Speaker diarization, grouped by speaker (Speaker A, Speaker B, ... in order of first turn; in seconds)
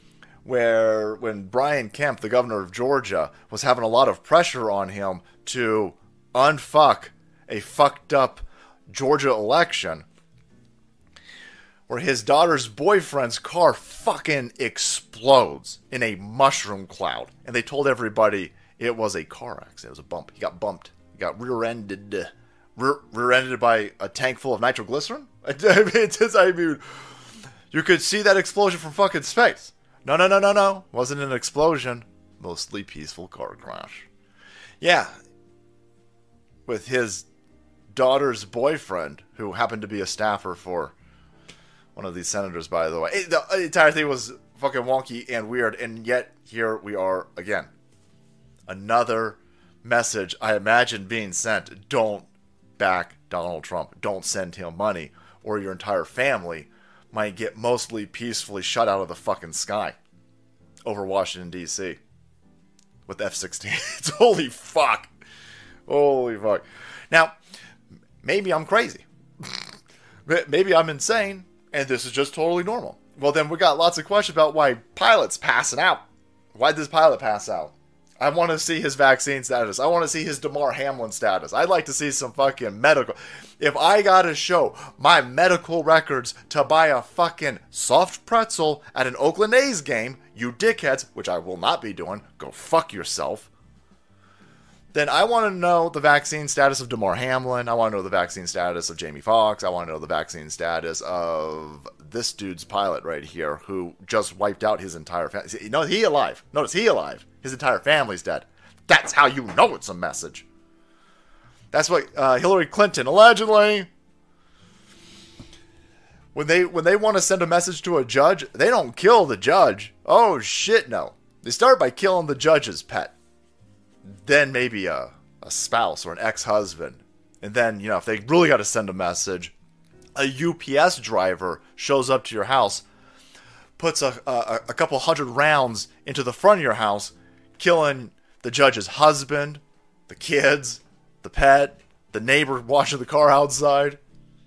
Speaker A: 0.4-10.0, 11.9-26.8, 27.7-34.0, 34.8-35.1, 36.7-37.2, 37.9-40.9, 42.0-47.7, 48.7-60.0, 60.8-62.0, 63.1-65.1, 65.9-67.3, 68.2-69.5, 70.3-76.0, 76.5-93.5, 94.9-110.4, 111.7-113.9, 116.3-123.1, 124.2-129.5, 130.2-132.8, 133.8-144.0